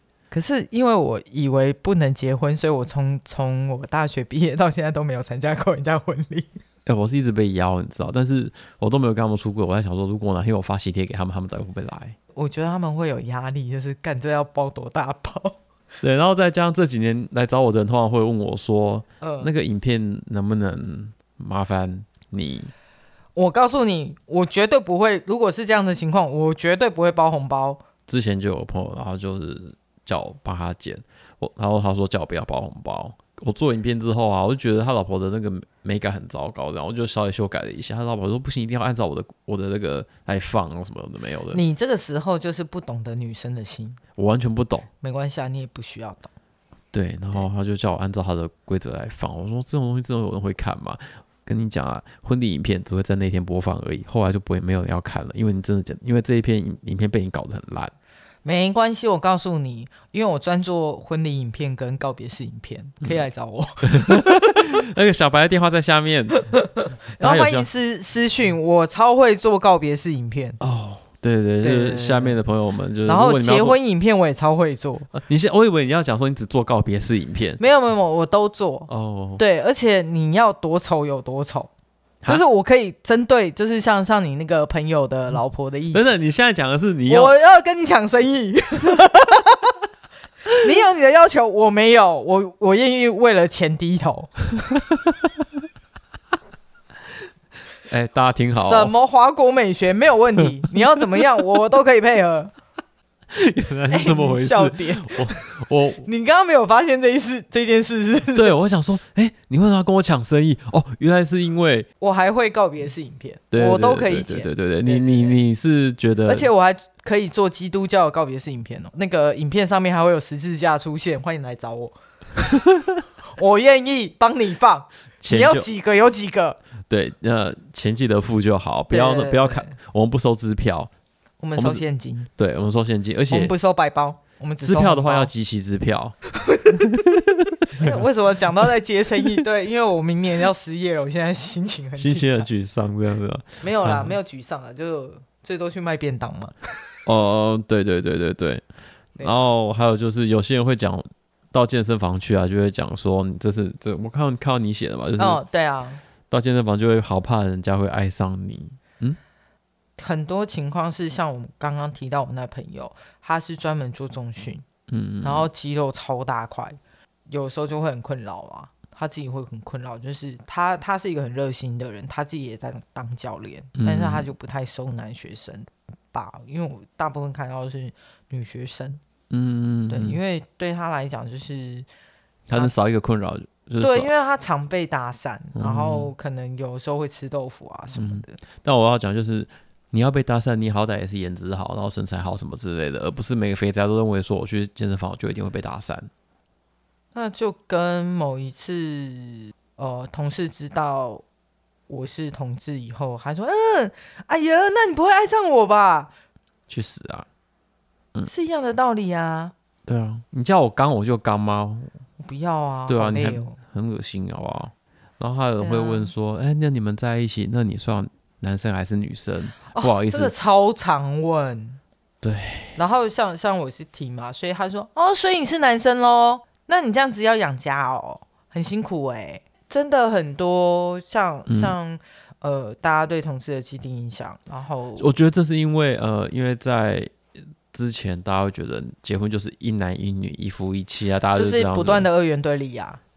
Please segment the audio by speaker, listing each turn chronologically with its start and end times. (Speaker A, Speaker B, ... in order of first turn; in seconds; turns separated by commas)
Speaker A: 0.3-6.5, Speaker B: 6.8-12.2, Speaker A: 12.3-15.6, Speaker B: 16.0-22.7, Speaker A: 19.2-19.5, Speaker A: 23.4-27.8, Speaker B: 28.1-41.6, Speaker A: 41.5-44.0, Speaker B: 44.1-44.9, Speaker A: 45.0-46.3, Speaker B: 46.9-57.9, Speaker A: 58.4-64.8, Speaker B: 63.8-66.4, Speaker A: 66.3-70.6, Speaker B: 67.2-67.7, Speaker B: 70.6-73.8, Speaker A: 71.6-72.4, Speaker A: 73.0-75.1, Speaker B: 75.1-77.6, Speaker A: 77.6-81.7, Speaker B: 78.9-79.4, Speaker A: 82.3-86.1, Speaker B: 85.9-87.3, Speaker A: 87.1-89.8, Speaker A: 90.6-94.4, Speaker B: 97.8-98.9, Speaker A: 98.6-102.5, Speaker B: 103.3-106.1, Speaker A: 103.9-105.5, Speaker A: 106.0-108.5, Speaker B: 108.3-111.9, Speaker A: 112.0-115.4, Speaker B: 113.5-116.5, Speaker A: 116.3-121.9, Speaker B: 122.7-123.0, Speaker A: 123.3-126.6, Speaker B: 125.2-125.7, Speaker B: 126.9-130.9, Speaker A: 128.9-129.7, Speaker A: 131.4-132.3, Speaker B: 131.6-131.8, Speaker B: 132.4-133.5, Speaker A: 133.3-135.3, Speaker B: 134.6-136.2, Speaker A: 136.3-136.8, Speaker B: 136.7-138.0, Speaker A: 137.7-142.5, Speaker B: 142.0-144.1, Speaker A: 143.6-146.5, Speaker B: 147.0-148.6, Speaker A: 149.2-149.5, Speaker B: 149.2-155.4, Speaker A: 155.2-156.0, Speaker B: 156.3-159.2, Speaker A: 160.0-164.7, Speaker B: 164.9-165.5, Speaker A: 165.2-179.0, Speaker B: 173.7-174.3, Speaker B: 179.3-180.2, Speaker A: 179.9-181.9, Speaker B: 182.5-184.1, Speaker A: 183.8-188.4, Speaker B: 185.5-186.1, Speaker B: 187.9-196.1, Speaker A: 197.1-201.2, Speaker A: 201.9-206.1, Speaker B: 206.7-207.2, Speaker A: 208.2-209.5, Speaker B: 209.9-211.9, Speaker A: 212.2-213.6, Speaker B: 212.9-220.3, Speaker A: 215.6-216.1, Speaker A: 219.7-221.8, Speaker B: 222.2-222.8, Speaker A: 222.8-235.1, Speaker B: 231.5-231.7, Speaker B: 235.0-237.1, Speaker B: 237.7-242.1, Speaker A: 241.3-243.0